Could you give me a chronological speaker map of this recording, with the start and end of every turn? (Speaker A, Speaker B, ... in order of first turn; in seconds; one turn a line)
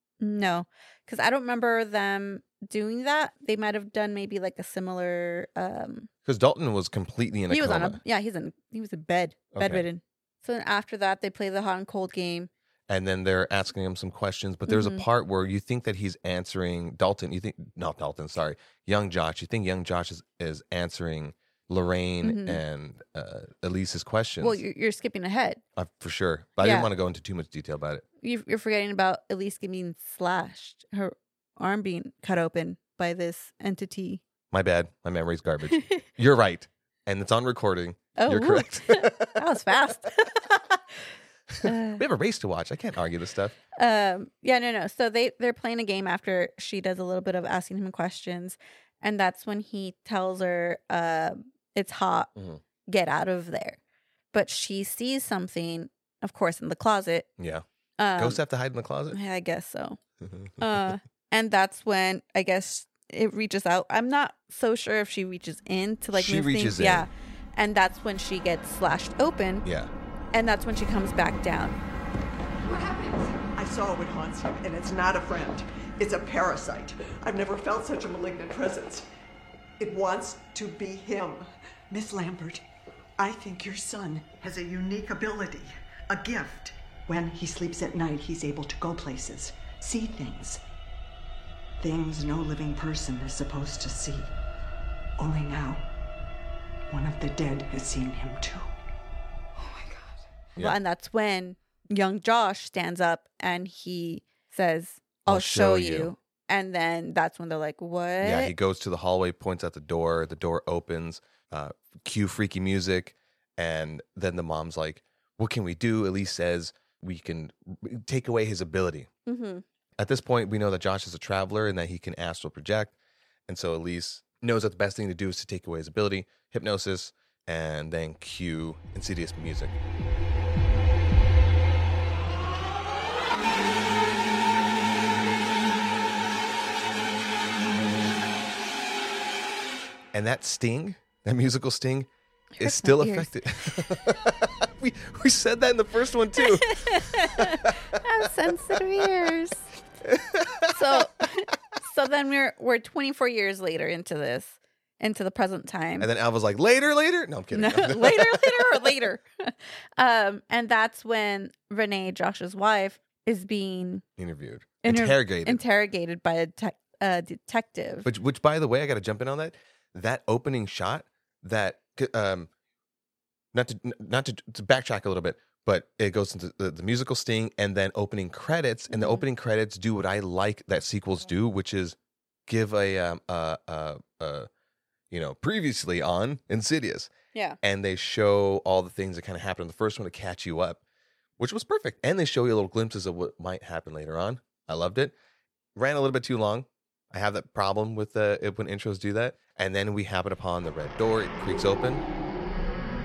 Speaker A: 0.2-6.1
Speaker B: 6.2-8.0
Speaker A: 7.5-12.5
Speaker B: 9.5-9.8
Speaker B: 12.9-24.6
Speaker A: 14.7-15.0
Speaker A: 22.2-22.6
Speaker A: 24.4-25.6
Speaker B: 25.8-28.0
Speaker A: 26.6-26.9
Speaker A: 28.2-34.2
Speaker B: 34.5-39.4
Speaker A: 35.7-36.0
Speaker A: 38.2-41.0
Speaker B: 41.5-43.6
Speaker A: 41.6-42.0
Speaker A: 43.8-52.3
Speaker B: 52.4-52.6
Speaker A: 52.9-53.8
Speaker A: 54.3-57.3
Speaker B: 57.4-57.6
Speaker A: 58.0-58.4
Speaker B: 58.2-59.2
Speaker A: 59.1-60.0
Speaker B: 60.2-60.8
Speaker A: 60.6-69.7
Speaker B: 66.1-67.1
Speaker B: 69.6-69.9
Speaker A: 70.3-71.8
Speaker C: 72.6-79.1
Speaker C: 79.8-82.6
Speaker C: 83.2-90.6
Speaker C: 91.8-94.3
Speaker C: 95.2-95.8
Speaker C: 96.9-98.7
Speaker C: 99.5-100.1
Speaker A: 100.6-108.5
Speaker B: 105.2-106.1
Speaker B: 108.2-119.1
Speaker A: 119.2-119.6
Speaker B: 120.0-122.9
Speaker B: 123.5-129.8
Speaker B: 140.1-148.0
Speaker A: 142.6-143.9
Speaker A: 146.4-149.7
Speaker B: 150.0-151.0
Speaker A: 150.7-156.1
Speaker B: 156.0-159.1
Speaker A: 157.5-164.0
Speaker B: 164.2-165.6
Speaker A: 164.8-168.1
Speaker B: 168.0-172.5
Speaker B: 173.5-184.5
Speaker A: 178.9-179.2
Speaker B: 185.1-187.1
Speaker A: 187.3-187.6
Speaker B: 187.6-190.8
Speaker B: 191.4-195.1
Speaker B: 195.7-202.0